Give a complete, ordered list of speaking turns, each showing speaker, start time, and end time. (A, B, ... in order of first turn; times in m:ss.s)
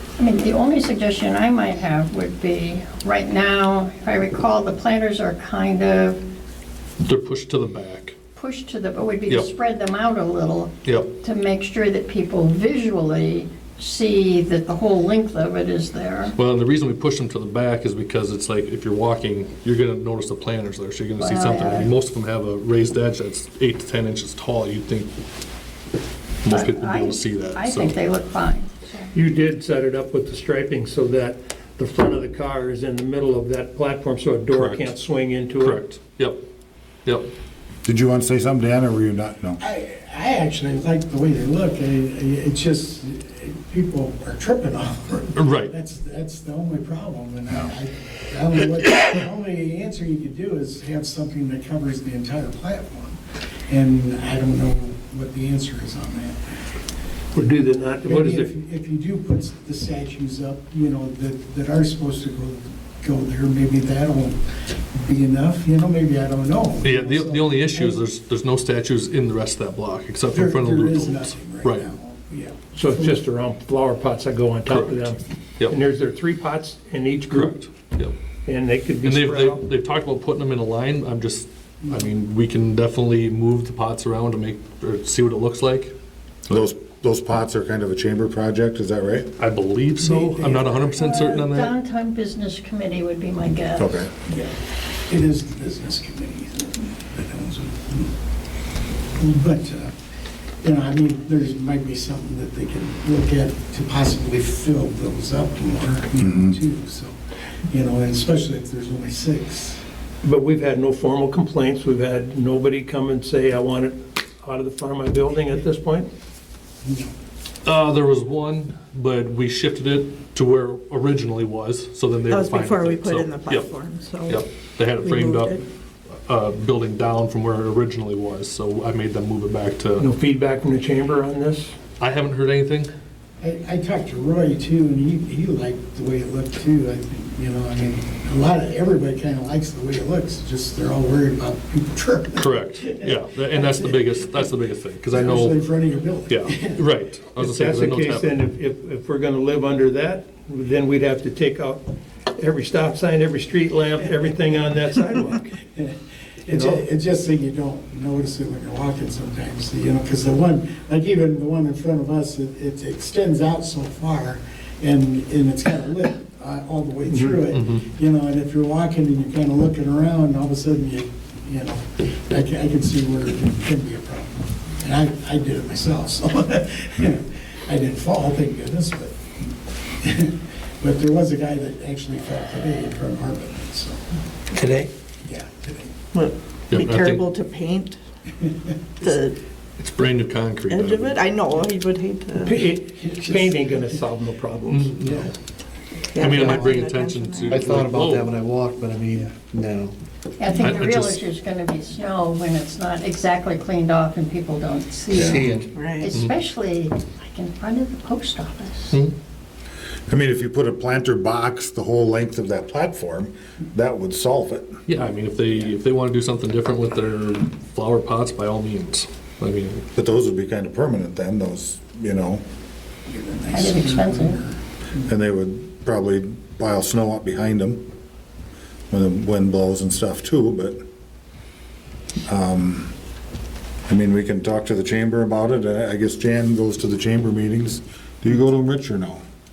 0:00.2-0:06.2 A
0:07.0-0:08.2 B
0:08.4-0:16.4 A
0:10.8-0:11.1 B
0:16.4-0:25.1 B
0:21.2-0:21.9 A
0:26.4-0:28.0 B
0:26.5-0:29.1 A
0:29.1-0:35.8 C
0:34.5-0:34.9 B
0:35.6-0:36.4 B
0:37.8-0:39.6 D
0:39.6-0:56.6 E
0:45.4-0:45.7 B
0:57.3-0:58.5 C
0:58.0-1:04.4 E
1:04.9-1:08.0 E
1:06.8-1:11.9 B
1:10.3-1:13.2 E
1:12.7-1:17.6 C
1:14.7-1:14.9 B
1:17.3-1:18.1 B
1:18.5-1:19.6 C
1:19.0-1:25.9 B
1:26.5-1:29.3 D
1:29.4-1:31.7 B
1:30.0-1:30.9 E
1:31.0-1:34.0 A
1:33.8-1:34.1 D
1:34.1-1:38.1 E
1:39.2-1:39.9 E
1:40.6-1:47.2 E
1:46.2-1:46.6 D
1:47.7-1:49.8 E
1:50.2-1:56.1 C
1:56.8-1:57.1 E
1:57.6-2:03.7 B
2:02.3-2:04.4 F
2:04.3-2:05.7 B
2:05.0-2:05.6 F
2:06.2-2:10.1 B
2:10.0-2:11.7 C
2:12.0-2:12.9 B
2:13.4-2:24.5 E
2:22.4-2:25.6 B
2:25.1-2:26.9 E
2:26.3-2:28.3 B
2:27.4-2:35.6 C
2:35.7-2:59.4 E
2:36.5-2:36.8 C
2:47.1-2:47.4 C
2:47.5-2:47.8 B
3:00.0-3:04.2 E
3:04.6-3:04.9 C
3:05.2-3:05.9 E
3:06.1-3:08.0 F
3:06.7-3:07.2 B
3:09.0-3:09.4 F
3:09.8-3:11.2 B
3:10.7-3:12.6 F
3:12.4-3:15.2 C
3:13.0-3:13.5 E
3:14.7-3:15.3 B
3:16.1-3:17.7 F
3:16.2-3:18.3 B
3:16.3-3:16.7 G
3:17.5-3:20.0 G
3:20.4-3:29.0 A
3:20.6-3:21.2 B
3:25.1-3:25.5 D
3:25.2-3:25.8 G
3:25.7-3:26.1 F
3:30.1-3:34.8 D
3:34.9-3:39.8 B
3:40.0-3:42.4 D
3:43.1-3:44.5 E
3:43.5-3:44.4 A
3:45.1-3:47.8 D
3:48.9-3:50.8 D
3:52.3-3:52.9 D
3:53.9-3:59.2 D